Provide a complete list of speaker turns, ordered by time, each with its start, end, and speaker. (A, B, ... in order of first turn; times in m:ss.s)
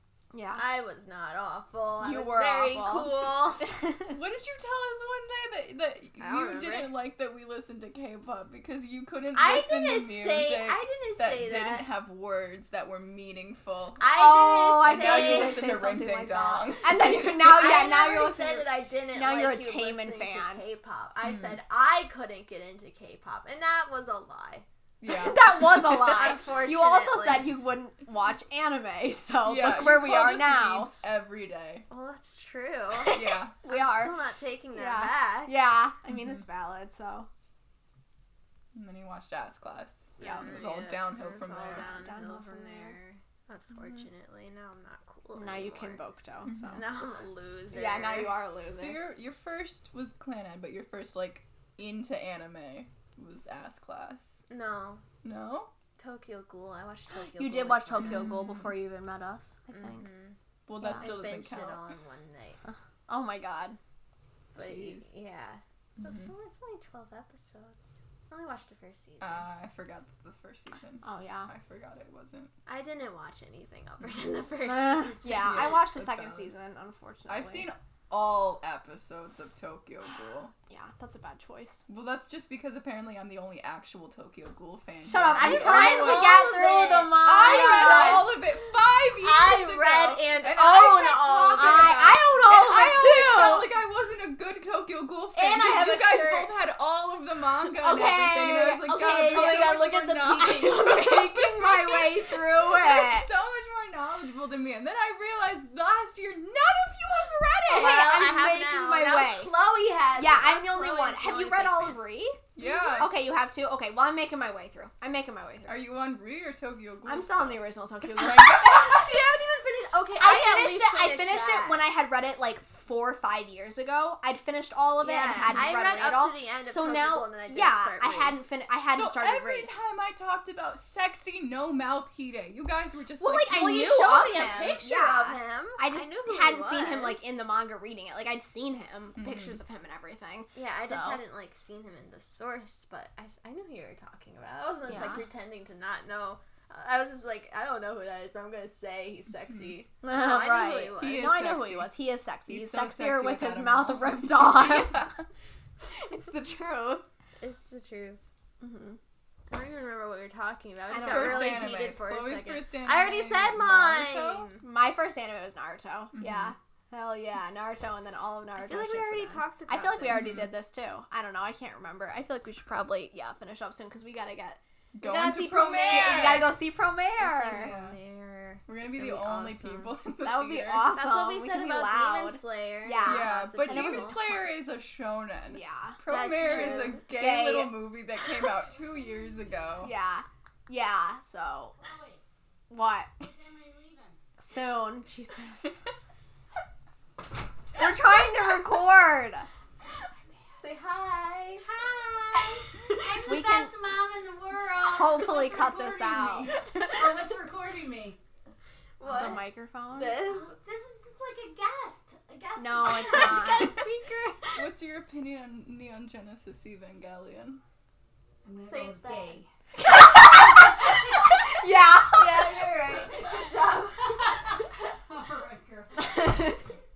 0:00.3-0:00.6 A
0:00.6-0:03.6 B
0:02.0-0:04.2 A
0:04.1-0:14.0 C
0:06.2-0:06.9 B
0:09.3-0:11.9 B
0:14.0-0:15.6 B
0:14.1-0:20.6 A
0:14.8-0:17.6 C
0:17.4-0:24.6 B
0:21.2-0:21.6 C
0:25.0-0:26.2 C
0:25.1-0:30.9 A
0:25.9-0:27.5 B
0:29.4-0:31.9 C
0:31.9-0:35.5 B
0:33.0-0:34.1 A
0:33.1-0:33.5 C
0:34.7-0:37.3 A
0:38.7-0:41.9 C
0:40.2-0:40.6 A
0:40.2-0:46.0 B
0:41.6-0:43.0 A
0:45.4-0:46.9 A
0:46.5-0:46.8 C
0:46.6-0:48.3 B
0:47.7-0:49.0 A
0:48.8-0:54.4 C
0:54.5-0:55.0 B
0:55.2-0:55.7 C
0:56.0-0:58.3 B
0:57.3-1:00.0 A
0:58.0-0:58.7 C
0:59.7-1:00.3 B
1:00.7-1:01.9 C
1:00.8-1:01.1 A
1:00.9-1:02.6 B
1:02.6-1:03.8 A
1:04.5-1:09.5 B
1:04.6-1:05.0 C
1:06.0-1:06.3 C
1:09.2-1:12.5 C
1:11.0-1:11.5 A
1:12.6-1:15.7 B
1:14.6-1:17.7 A
1:15.4-1:16.5 C
1:17.3-1:20.5 C
1:20.7-1:21.8 A
1:21.9-1:48.1 C
1:25.0-1:28.3 A
1:25.3-1:28.4 B
1:29.2-1:32.2 B
1:31.5-1:33.7 A
1:35.3-1:36.5 B
1:37.7-1:43.3 A
1:39.2-1:40.9 B
1:47.7-1:52.0 B
1:47.7-1:49.5 A
1:50.2-1:55.7 A
1:52.6-1:53.1 C
1:55.6-1:57.6 C
1:57.0-1:59.2 A
1:58.3-2:01.8 B
2:00.2-2:09.7 A
2:05.0-2:08.4 B
2:08.9-2:13.8 C
2:13.2-2:21.2 A
2:13.5-2:17.2 B
2:19.2-2:19.6 C
2:20.5-2:31.3 B
2:24.9-2:25.2 A
2:29.5-2:29.8 C
2:30.0-2:35.1 A
2:31.0-2:31.9 C
2:32.5-2:35.2 C
2:35.9-2:37.0 A
2:37.4-2:38.2 B
2:38.6-2:39.0 A
2:39.5-2:44.6 B
2:40.9-2:41.8 A
2:40.9-2:44.5 C
2:44.6-2:54.6 A
2:46.1-2:46.5 C
2:48.6-2:50.4 B
2:50.1-2:50.5 C
2:55.0-2:56.6 C
2:55.0-2:56.5 B
2:55.8-2:57.7 A
2:57.2-2:59.9 B
2:57.5-2:58.0 C
2:58.7-3:00.9 C
3:00.2-3:04.4 A
3:00.9-3:04.2 B
3:03.0-3:09.9 C
3:05.5-3:07.8 A
3:06.1-3:07.0 B
3:08.5-3:09.8 D
3:09.8-3:11.7 A
3:11.8-3:12.2 D
3:12.7-3:13.3 A
3:13.2-3:14.2 D
3:14.4-3:15.8 A
3:17.8-3:19.5 A
3:20.6-3:21.7 B
3:22.1-3:23.7 A
3:22.9-3:24.0 B
3:23.0-3:28.2 D
3:24.6-3:26.9 B
3:24.8-3:26.6 A
3:29.0-3:30.6 B
3:29.0-3:30.2 A
3:30.2-3:32.2 D
3:32.2-3:34.6 B
3:32.6-3:33.8 A
3:32.7-3:33.8 D
3:34.6-3:37.6 C
3:38.4-3:39.5 D
3:38.6-3:39.4 B
3:39.8-3:42.7 A
3:40.7-3:41.3 B
3:42.1-3:44.6 B
3:42.9-3:43.4 D
3:44.2-3:46.6 D
3:46.0-3:46.6 A